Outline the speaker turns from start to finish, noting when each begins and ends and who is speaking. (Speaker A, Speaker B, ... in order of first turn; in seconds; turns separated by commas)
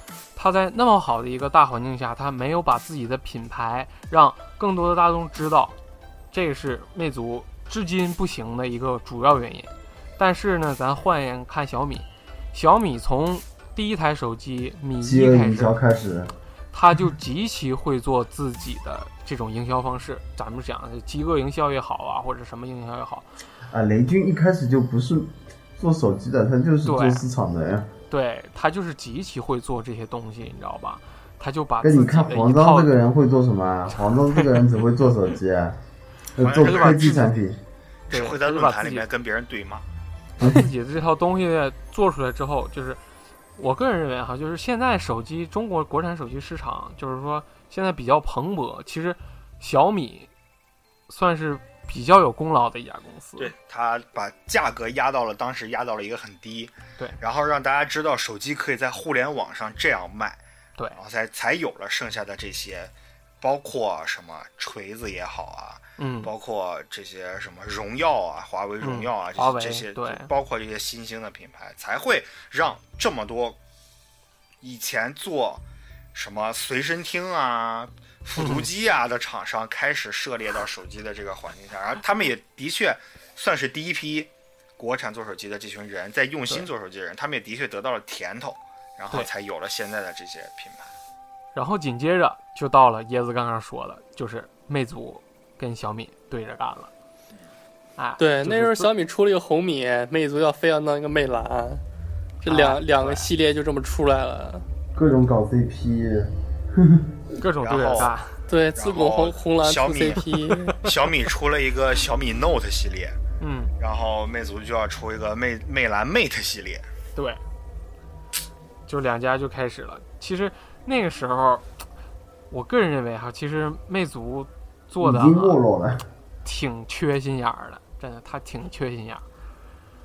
Speaker A: 0.3-5.8, Speaker A: 6.3-15.8, Speaker B: 15.0-16.3, Speaker A: 16.7-23.3, Speaker B: 23.7-27.9, Speaker A: 26.8-27.2, Speaker A: 28.1-32.9, Speaker B: 31.8-35.8, Speaker A: 34.0-34.6, Speaker B: 36.4-37.6, Speaker C: 36.4-37.2, Speaker A: 36.6-37.3, Speaker C: 38.1-39.9, Speaker A: 38.1-39.1, Speaker B: 40.4-40.6, Speaker A: 40.4-43.0, Speaker A: 43.6-50.3, Speaker A: 51.1-53.5, Speaker C: 53.4-60.4, Speaker C: 60.9-73.6, Speaker A: 66.0-66.3, Speaker A: 68.8-70.3, Speaker C: 74.6-75.6, Speaker C: 76.1-90.9, Speaker A: 78.4-78.7, Speaker A: 91.5-96.9, Speaker A: 98.0-98.9, Speaker D: 98.2-101.8, Speaker D: 102.4-104.7, Speaker A: 102.4-103.3, Speaker B: 105.0-107.1, Speaker A: 107.4-108.4, Speaker C: 107.6-108.1, Speaker D: 108.5-110.8, Speaker C: 108.7-113.2, Speaker A: 113.4-113.7, Speaker C: 113.8-116.9, Speaker A: 117.2-117.4, Speaker A: 118.9-121.7, Speaker A: 122.5-125.6, Speaker B: 125.0-126.1, Speaker A: 126.5-129.2